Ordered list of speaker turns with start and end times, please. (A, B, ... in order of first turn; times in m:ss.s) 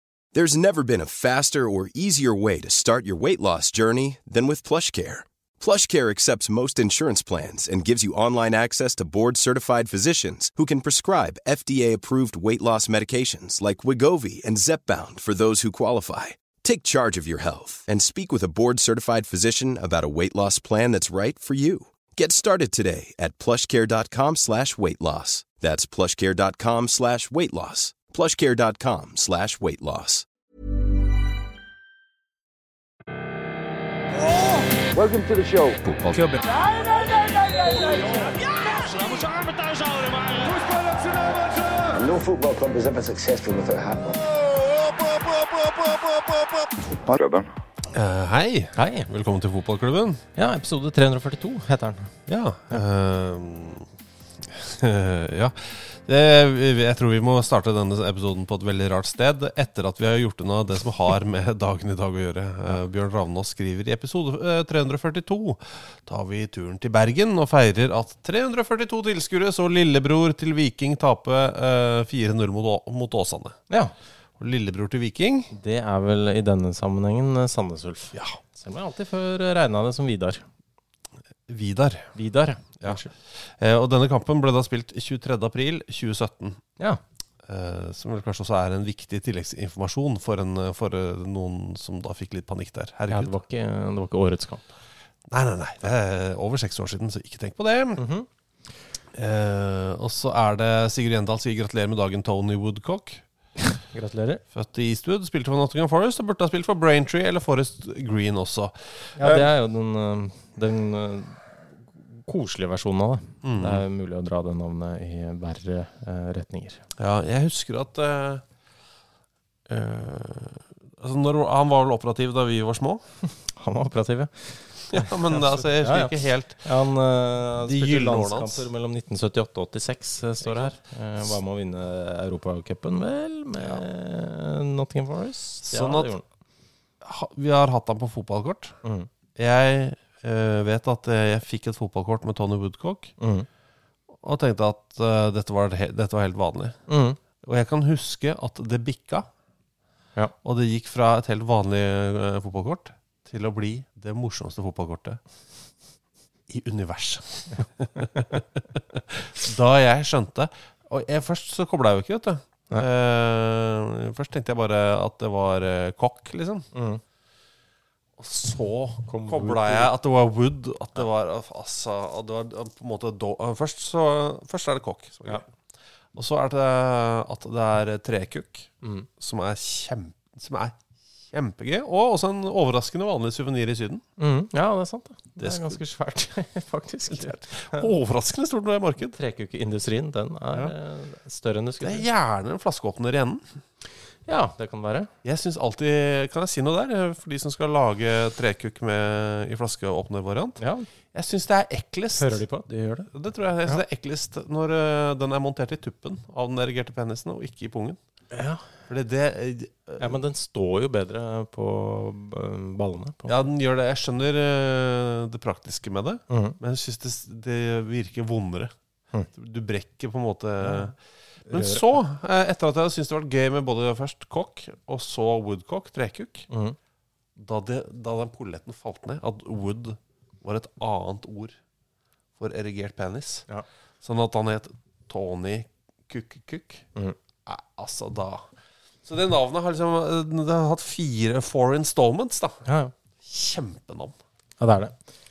0:00.3-0:30.3 A
0:34.9-0:35.8 B
0:36.4-0:41.9 C
0:42.0-0:44.2 B
0:46.8-0:47.5 B
0:47.9-0:50.2 D
0:48.8-0:49.1 E
0:50.4-0:52.8 E
0:52.3-0:53.9 D
0:54.5-1:13.6 D
1:14.4-1:15.5 D
1:15.5-1:20.4 E
1:21.5-1:22.1 D
1:22.2-1:23.1 E
1:23.6-1:26.6 D
1:27.5-1:33.3 D
1:33.1-1:34.8 E
1:35.3-1:38.0 D
1:38.0-1:38.3 E
1:39.2-1:43.2 D
1:43.8-1:44.4 E
1:44.5-1:49.5 D
1:49.2-1:51.4 E
1:52.0-1:56.8 E
1:53.4-1:53.8 D
1:57.0-1:58.4 D
1:59.7-2:03.0 D
2:03.3-2:16.2 E
2:04.9-2:06.7 D
2:07.6-2:08.7 D
2:10.5-2:10.8 D
2:15.6-2:16.1 D
2:17.0-2:18.8 D
2:18.8-2:19.1 E
2:19.4-2:23.1 D
2:23.2-2:23.5 E
2:24.2-2:26.8 D
2:26.9-2:27.2 E
2:27.4-2:29.3 D
2:30.4-2:35.2 D
2:36.5-2:46.7 D
2:46.7-2:47.0 E
2:48.2-2:55.4 D
2:49.1-2:49.9 E
2:56.2-3:00.8 D
3:01.3-3:04.0 D
3:04.2-3:07.9 E
3:05.4-3:05.8 D
3:07.1-3:09.2 D
3:09.2-3:12.0 E
3:11.8-3:13.4 D
3:14.3-3:15.1 E
3:15.2-3:20.6 D
3:20.6-3:20.9 E
3:21.1-3:22.4 D
3:22.2-3:23.1 E
3:23.1-3:28.0 D
3:28.3-3:28.6 E
3:28.9-3:30.2 D
3:30.0-3:33.4 E
3:33.3-3:38.7 D
3:36.3-3:36.6 E
3:39.4-3:41.0 D
3:40.6-3:40.9 E
3:41.5-3:42.0 E
3:41.5-3:46.5 D
3:46.5-3:46.8 E
3:47.4-3:51.6 D
3:52.4-3:53.5 D
3:54.0-3:56.9 D
3:57.5-3:58.4 D
3:59.0-4:02.6 D
4:02.7-4:02.9 E
4:03.2-4:04.1 D
4:04.6-4:05.0 E